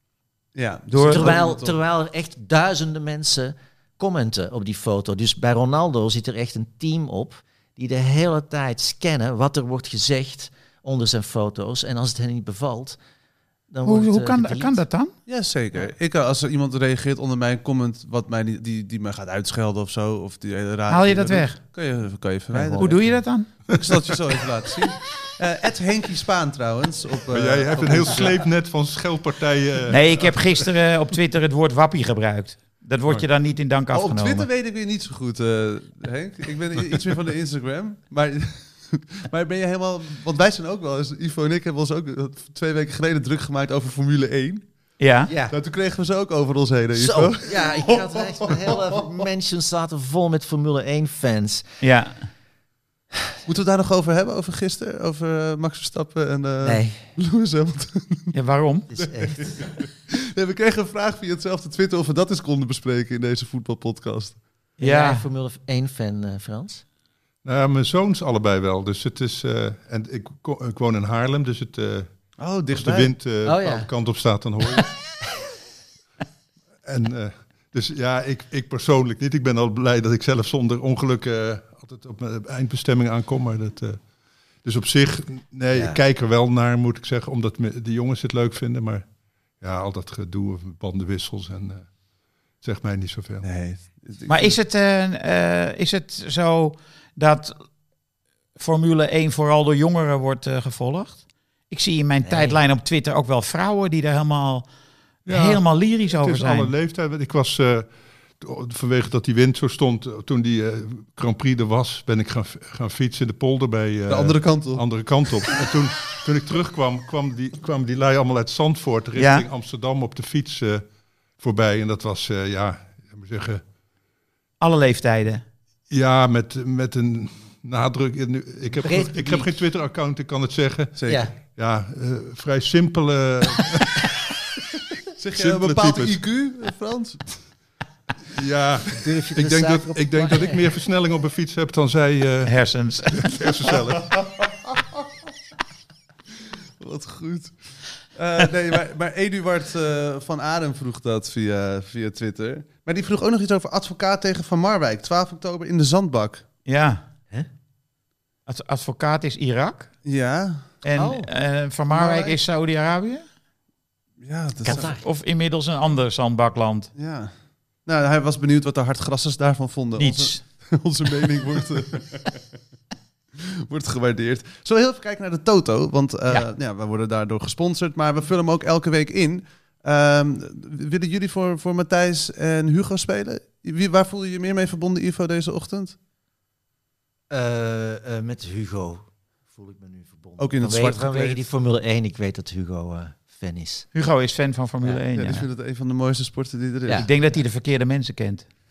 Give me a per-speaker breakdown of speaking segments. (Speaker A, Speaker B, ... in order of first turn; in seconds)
Speaker A: 0.5-1.8, 15.3-28.4, 33.9-44.7, 45.5-49.2, 53.5-58.3, 59.2-64.4, 72.4-73.2, 93.4-94.6, 114.1-114.8, 130.9-131.2, 135.2-137.4, 144.1-144.8, 146.8-156.4, 160.0-160.8, 161.9-162.4, 164.2-165.0, 166.9-167.3, 167.8-172.4, 173.4-185.9, 190.4-191.4, 195.1-197.0
Speaker B: 0.9-1.3, 13.8-15.1, 20.9-21.6, 22.8-23.5, 29.9-34.5, 45.0-45.3, 51.8-52.2, 58.3-58.9, 64.8-65.3, 94.3-97.5, 98.6-104.7, 105.3-106.7, 124.6-125.4, 142.4-143.3, 156.6-157.0, 158.5-159.9, 160.8-163.2, 165.0-166.9, 170.0-170.4, 193.9-195.4, 196.9-198.4
Speaker C: 0.9-13.0, 13.7-14.8, 22.5-23.2, 45.3-45.5, 46.9-51.6, 56.6-57.1, 58.9-59.6, 64.8-66.8, 73.4-73.9, 85.7-86.0, 102.2-102.6, 128.8-129.5, 131.1-131.3, 138.9-140.7, 160.9-161.3, 164.6-165.0, 187.3-193.9
Speaker D: 27.3-30.7, 67.4-72.1, 72.7-74.9, 76.8-84.0, 84.6-89.0, 89.6-91.9, 92.6-93.5, 105.2-107.9, 108.4-120.8, 121.4-123.6, 125.9-134.1, 135.3-136.2, 138.3-144.2